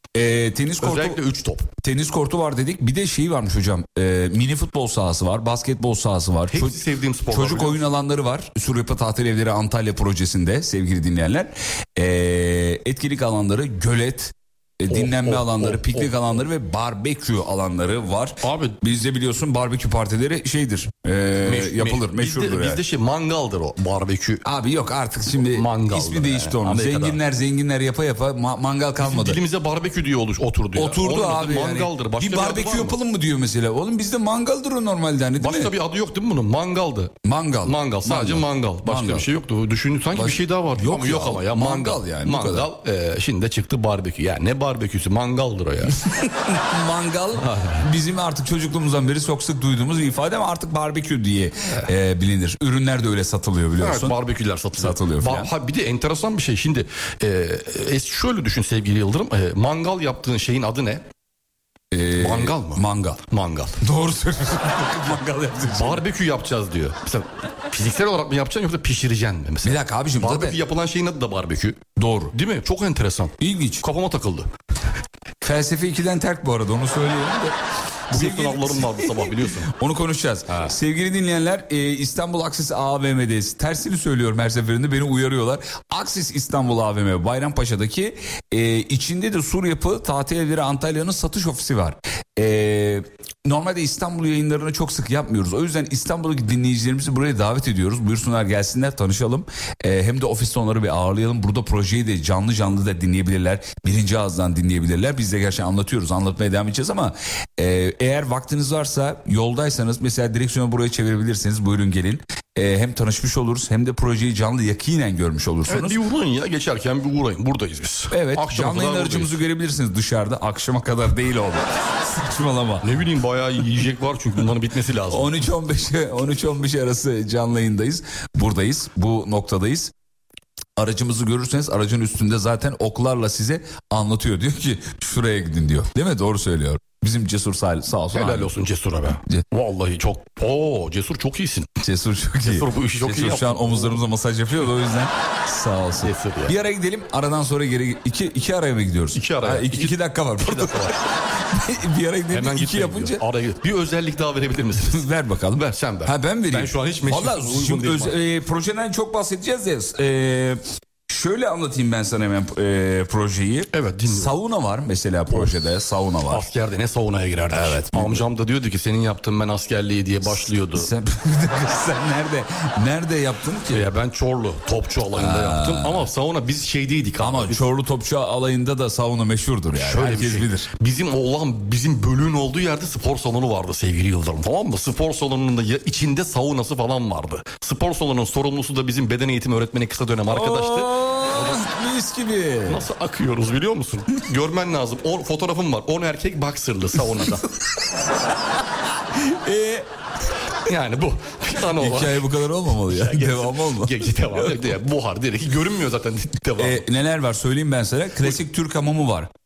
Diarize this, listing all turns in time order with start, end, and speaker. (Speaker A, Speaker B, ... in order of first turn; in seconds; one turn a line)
Speaker A: 0.1-1.2
Speaker B: 0.8-1.7
Speaker A: 1.8-22.8
Speaker B: 6.5-7.8
Speaker B: 14.9-16.4
Speaker B: 18.4-18.8
Speaker B: 21.4-24.4
Speaker A: 24.4-29.4
Speaker B: 25.5-27.2
Speaker B: 29.0-33.0
Speaker A: 30.7-35.7
Speaker B: 35.4-46.0
Speaker A: 37.2-39.3
Speaker A: 40.1-42.7
Speaker A: 46.0-54.2
Speaker B: 47.4-47.8
Speaker B: 53.8-61.0
Speaker A: 54.8-55.5
Speaker A: 61.9-63.2
Speaker B: 62.1-63.8
Speaker A: 63.8-66.0
Speaker B: 65.6-74.5
Speaker A: 69.6-70.6
Speaker A: 72.0-72.3
Speaker A: 73.4-73.8
Speaker A: 75.4-77.6
Speaker A: 78.1-116.0
Speaker B: 78.1-79.7
Speaker B: 80.5-80.7
Speaker B: 115.7-119.4
Speaker A: 118.1-122.9
Speaker B: 122.8-125.3
Speaker A: 125.1-129.9
Speaker A: 130.8-138.5
Speaker B: 138.1-141.7
Speaker A: 141.8-153.2
Speaker B: 142.4-144.0
Speaker B: 146.0-146.6
Speaker B: 149.1-151.0
Speaker B: 152.3-158.2
Speaker A: 154.9-166.4
Speaker B: 163.7-164.3
Speaker B: 166.3-170.9
Speaker A: 167.5-168.2
Speaker A: 170.7-173.9
Speaker B: 173.7-177.6
Speaker A: 175.2-176.1
Speaker A: 177.2-180.7
Speaker B: 179.7-191.7
Speaker A: 190.3-192.8
Speaker B: 192.7-197.5
Speaker A: 199.1-199.9
Speaker B: 200.6-206.8
Speaker A: 201.7-204.7
Speaker A: 206.6-209.3